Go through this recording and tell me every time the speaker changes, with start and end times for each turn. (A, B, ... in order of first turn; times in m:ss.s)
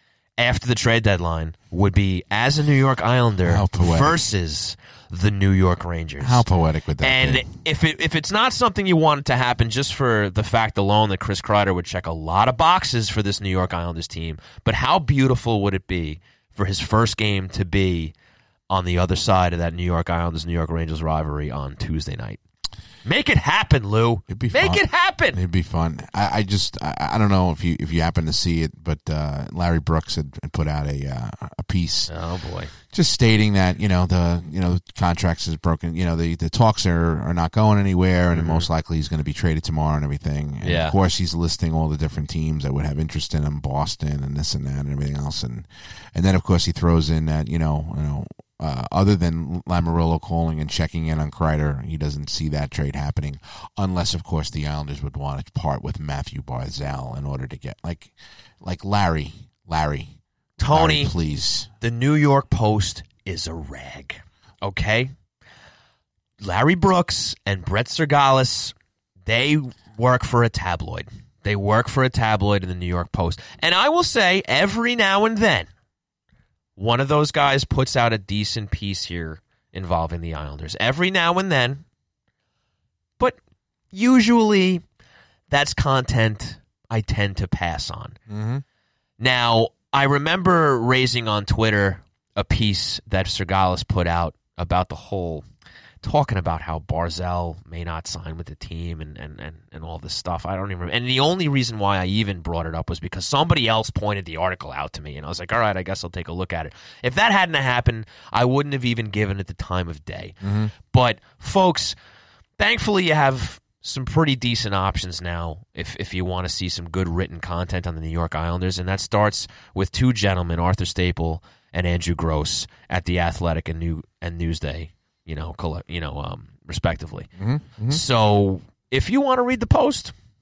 0:00.4-0:06.4 A
0:03.4-0:04.2 B
0:06.2-0:07.4 B
0:07.0-0:18.1 A
0:18.7-0:22.4 A
0:23.0-0:25.4 A
0:24.3-0:32.1 B
0:32.1-0:32.7 A
0:32.9-1:00.1 B
0:38.3-0:38.7 A
0:40.6-0:41.0 A
1:00.6-1:01.1 A
1:00.7-1:01.7 B
1:01.8-1:05.1 A
1:06.4-1:08.7 A
1:09.2-1:15.7 A
1:16.8-1:21.8 A
1:23.9-1:24.8 A
1:25.5-1:28.2 A
1:28.3-1:28.6 B
1:29.2-1:35.4 A
1:36.0-1:51.9 A
1:50.4-1:50.7 B
1:52.6-2:07.3 A
2:07.4-2:08.0 B
2:07.9-2:10.1 A